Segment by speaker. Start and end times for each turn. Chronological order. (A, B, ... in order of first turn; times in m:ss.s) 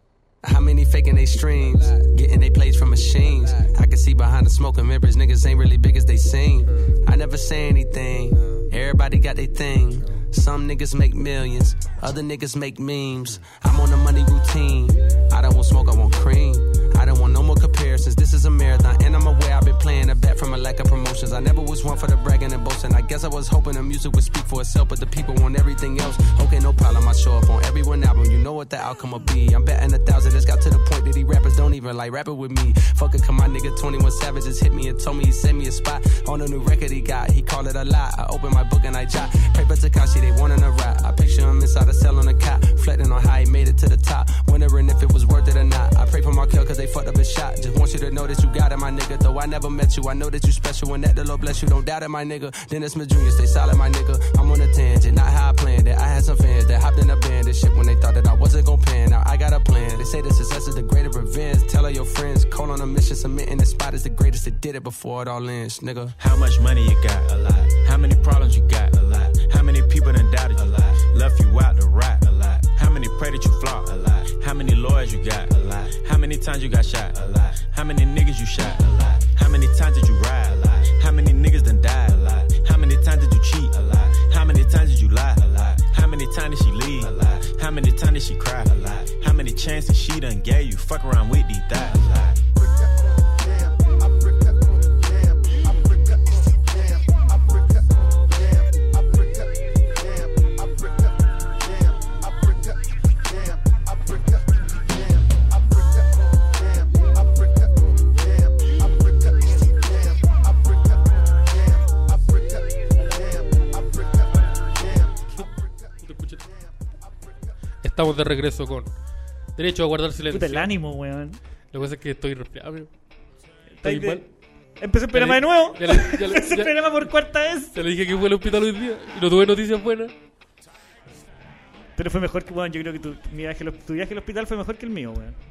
0:00.4-1:06.1 A
1:06.2-1:32.4 B
1:55.3-1:56.5 C
1:57.8-1:58.9 C
1:59.6-2:00.7 C
2:00.3-2:01.4 D
2:01.7-2:02.9 C
2:03.8-2:04.2 D
2:03.8-2:04.2 C
2:04.8-2:07.8 D
2:05.1-2:07.1 C
2:07.7-2:10.1 C
2:12.0-2:15.4 D